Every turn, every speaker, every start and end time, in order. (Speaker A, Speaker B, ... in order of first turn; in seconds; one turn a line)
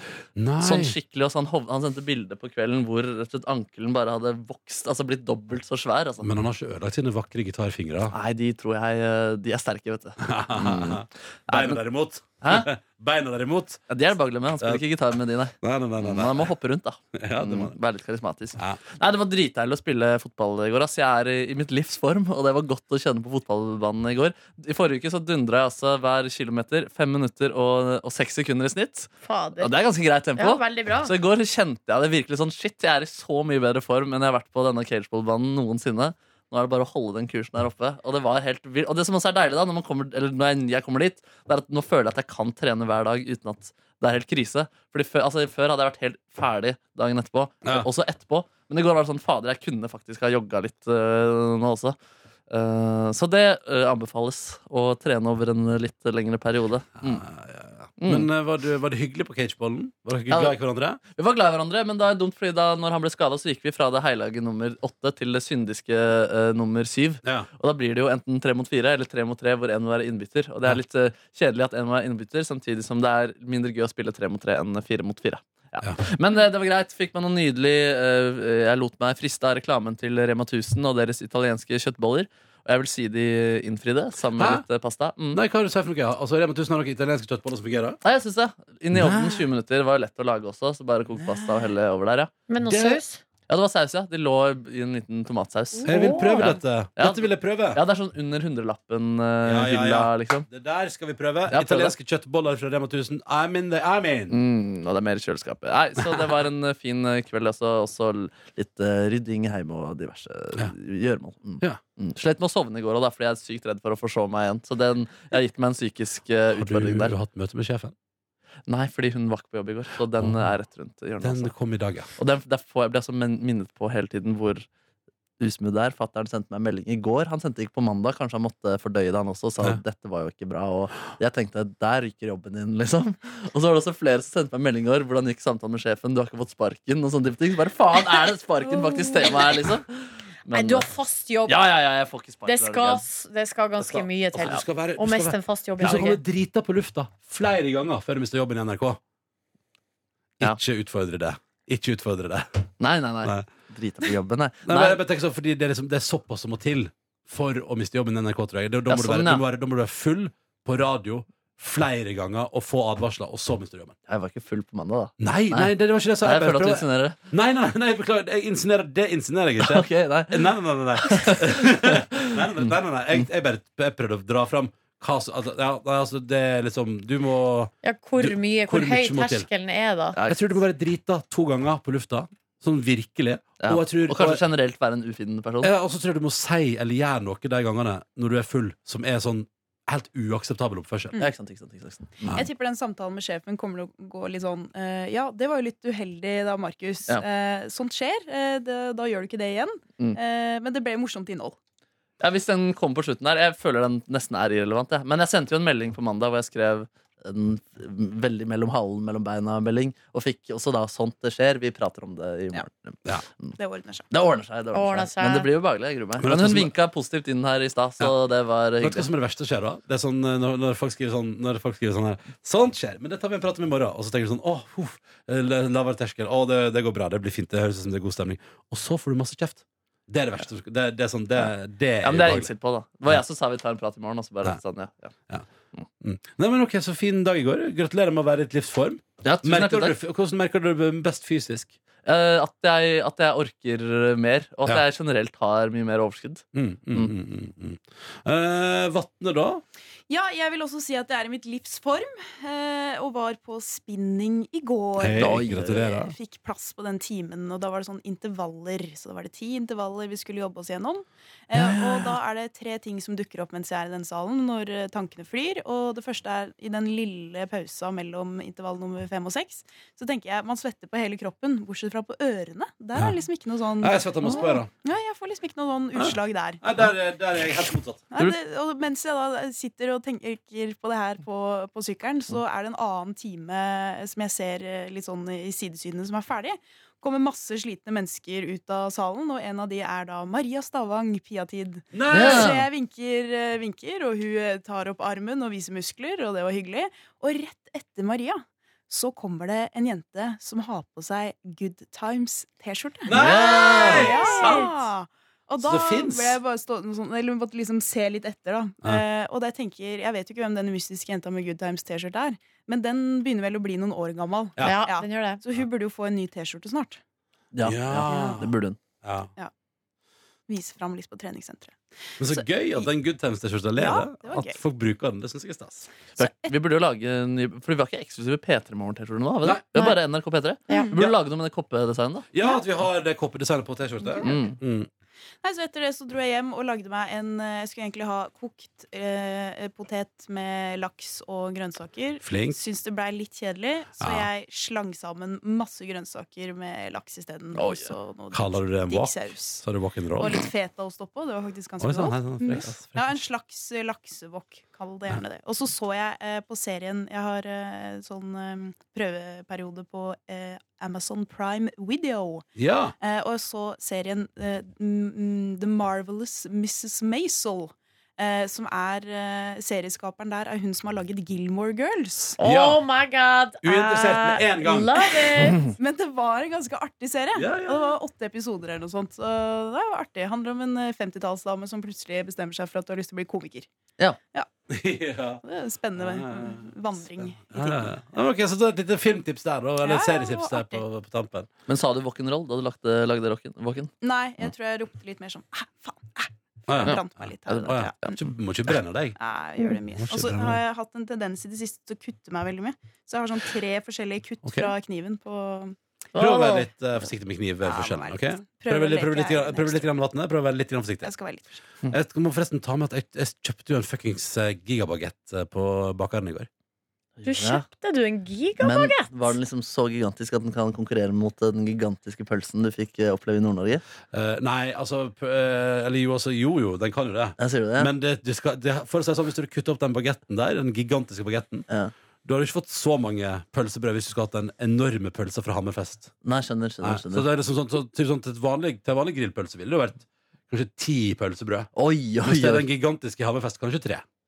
Speaker A: 0.3-0.9
Speaker B: 0.6-6.4
Speaker A: 6.2-8.1
Speaker B: 8.1-11.8
Speaker A: 10.2-13.8
Speaker B: 12.4-12.7
Speaker B: 13.9-52.0
Speaker A: 15.6-16.5
Speaker A: 17.1-17.7
Speaker C: 29.2-29.7
Speaker C: 30.4-31.1
Speaker B: 52.5-57.2
Speaker A: 57.0-61.0
Speaker B: 58.0-58.3
Speaker B: 60.3-60.5
Speaker B: 61.1-85.4
Speaker A: 84.4-84.6
Speaker A: 85.3-88.0
Speaker B: 88.0-92.8
Speaker A: 88.9-89.5
Speaker C: 92.5-93.2
Speaker A: 92.7-93.0
Speaker B: 93.5-95.9
Speaker C: 95.8-96.6
Speaker A: 95.8-97.8
Speaker B: 97.0-100.5
Speaker A: 99.4-104.3
Speaker B: 101.5-101.9
Speaker B: 104.3-117.1
Speaker A: 116.5-117.9
Speaker B: 118.7-121.5
Speaker A: 121.2-122.1
Speaker B: 122.2-124.7
Speaker B: 125.4-140.9
Speaker C: 138.7-139.6
Speaker C: 140.5-141.6
Speaker B: 141.4-143.0
Speaker C: 142.4-146.2
Speaker A: 144.3-149.0
Speaker B: 145.8-146.1
Speaker A: 150.4-152.7
Speaker B: 152.8-155.0
Speaker A: 154.7-163.9
Speaker B: 158.9-159.4
Speaker B: 164.1-165.7
Speaker A: 165.2-179.5
Speaker B: 166.2-167.2
Speaker B: 169.6-173.2
Speaker C: 177.8-180.2
Speaker B: 180.1-180.5
Speaker A: 180.3-184.4
Speaker B: 183.6-185.7
Speaker A: 185.6-191.2
Speaker B: 191.2-192.4
Speaker A: 192.2-192.5
Speaker D: 192.3-201.6
Speaker B: 202.2-213.5
Speaker D: 213.6-214.1
Speaker B: 214.1-219.1
Speaker C: 214.7-215.5
Speaker A: 216.2-216.7
Speaker A: 218.8-232.5
Speaker B: 232.0-235.1
Speaker A: 236.0-241.7
Speaker B: 239.2-240.0
Speaker B: 242.0-247.1
Speaker A: 246.5-249.6
Speaker D: 250.1-276.6
Speaker A: 255.0-256.0
Speaker B: 255.2-256.1
Speaker B: 261.6-262.2
Speaker A: 273.8-274.7
Speaker A: 275.9-278.0
Speaker D: 278.1-317.0
Speaker A: 291.9-292.6
Speaker B: 292.1-292.6
Speaker A: 303.1-304.7
Speaker B: 303.1-304.3
Speaker C: 304.0-304.7
Speaker A: 305.6-306.4
Speaker C: 314.6-315.4
Speaker B: 317.5-318.8
Speaker A: 317.6-319.3
Speaker D: 318.1-318.4
Speaker D: 320.5-322.9
Speaker A: 322.2-325.9
Speaker D: 323.7-324.6
Speaker B: 326.1-332.2
Speaker D: 326.2-326.5
Speaker D: 330.7-330.9
Speaker A: 332.3-334.9
Speaker D: 334.0-334.4
Speaker B: 334.2-334.6
Speaker D: 335.4-349.6
Speaker A: 342.2-342.6
Speaker A: 344.0-344.3
Speaker B: 347.5-347.9
Speaker A: 348.3-350.5
Speaker D: 350.2-362.4
Speaker A: 351.8-353.2
Speaker A: 362.6-362.9
Speaker D: 363.0-372.4
Speaker C: 372.4-375.7
Speaker A: 372.4-372.8
Speaker A: 373.6-375.2
Speaker D: 375.4-383.7
Speaker A: 377.3-377.9
Speaker A: 384.7-385.4
Speaker D: 385.4-387.9
Speaker A: 386.0-386.7
Speaker A: 387.5-391.5
Speaker D: 389.8-390.8
Speaker B: 391.7-393.9
Speaker D: 394.0-398.2
Speaker A: 396.7-399.2
Speaker B: 396.8-398.1
Speaker D: 399.1-405.8
Speaker A: 399.9-400.6
Speaker A: 404.4-404.7
Speaker C: 406.1-406.7
Speaker A: 406.1-411.1
Speaker D: 407.6-409.9
Speaker D: 411.0-411.6
Speaker A: 411.9-416.5
Speaker B: 417.2-417.6
Speaker C: 417.2-419.3
Speaker B: 418.6-423.8
Speaker A: 424.1-431.6
Speaker B: 427.4-427.9
Speaker A: 432.2-436.1
Speaker B: 436.2-437.3
Speaker A: 436.8-441.7
Speaker B: 441.8-442.6
Speaker A: 442.2-444.0